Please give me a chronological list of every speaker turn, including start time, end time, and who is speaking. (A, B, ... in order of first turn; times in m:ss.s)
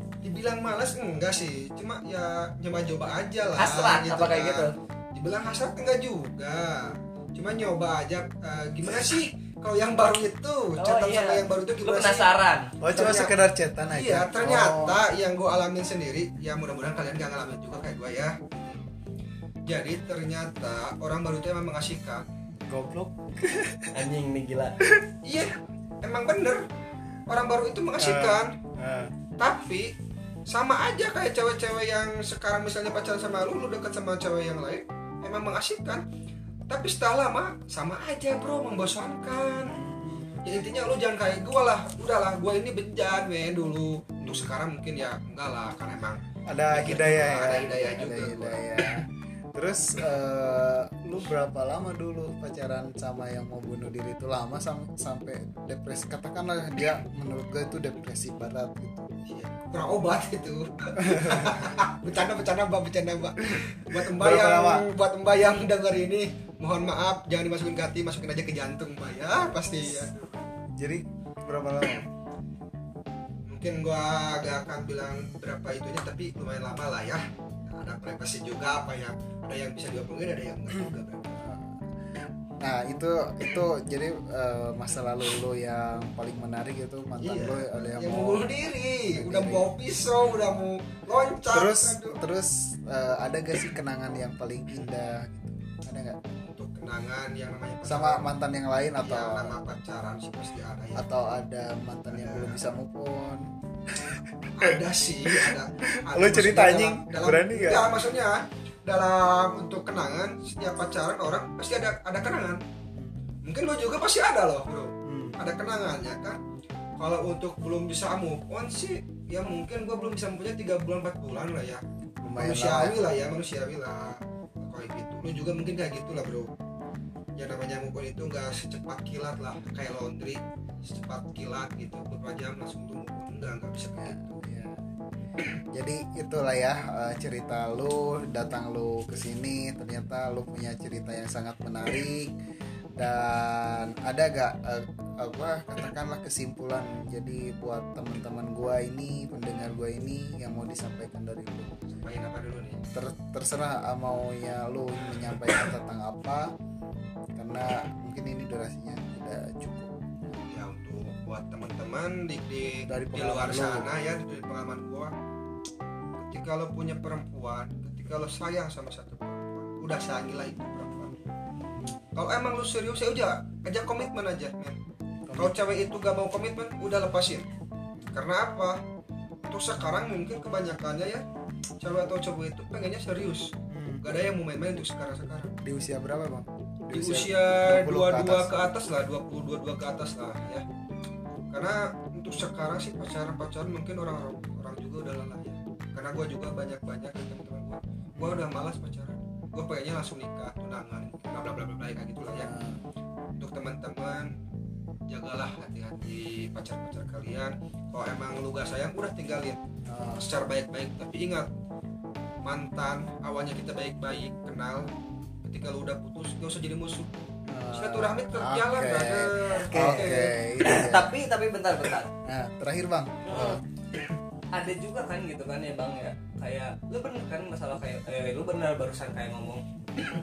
0:00.2-0:12.3 A
0:03.6-0:04.7 B
0:10.8-0:12.7 B
0:12.8-0:15.0 C
0:12.9-0:13.3 A
0:13.9-0:18.8 A
0:19.6-0:22.2 A
0:22.7-0:23.9 C
0:23.8-0:24.8 B
0:25.2-0:26.6 A
0:27.3-0:28.5 A
0:28.0-0:29.1 C
0:29.4-0:29.9 A
0:30.5-0:36.0 A
0:36.7-0:39.8 A
0:39.6-0:40.4 C
0:40.4-0:48.6 A
0:44.2-0:44.5 C
0:46.5-0:59.1 C
0:59.2-1:10.4 A
1:01.0-1:01.7 C
1:03.5-1:04.9 C
1:10.8-1:12.1 C
1:13.5-1:21.4 A
1:21.4-1:21.8 C
1:22.6-1:28.4 C
1:27.2-1:32.2 A
1:29.1-1:29.6 C
1:31.5-1:36.2 C
1:36.4-1:38.2 A
1:37.8-1:39.6 C
1:39.0-1:41.0 A
1:40.9-1:47.9 C
1:42.1-1:42.6 A
1:44.5-1:52.6 A
1:53.4-1:56.4 A
1:55.0-1:55.4 C
1:57.0-2:01.8 A
2:02.2-2:03.0 C
2:02.4-2:06.5 A
2:07.4-2:14.4 A
2:14.0-2:14.8 C
2:15.7-2:22.3 C
2:23.0-2:31.7 C
2:31.9-2:32.8 A
2:32.9-2:36.5 C
2:37.4-2:40.0 C
2:40.5-2:45.1 A
2:42.8-2:43.9 C
2:46.2-2:51.2 A
2:51.7-2:52.0 C
2:52.1-2:54.8 A
2:55.3-2:55.6 C
2:55.4-2:57.5 A
2:58.1-2:58.8 A
2:59.5-3:01.2 A
3:01.8-3:05.5 A
3:03.7-3:04.0 C
3:05.6-3:08.5 C
3:06.9-3:10.6 A
3:11.5-3:22.5 A
3:18.2-3:18.5 C
3:22.3-3:22.8 C
3:23.4-3:24.4 A
3:25.1-3:29.6 A
3:29.8-3:30.3 C
3:30.2-3:31.5 A
3:32.4-3:34.9 A
3:35.4-3:40.3 A
3:37.4-3:41.2 C
3:39.6-3:42.1 B
3:42.2-3:43.6 C
3:43.2-3:43.6 B
3:44.5-3:49.6 B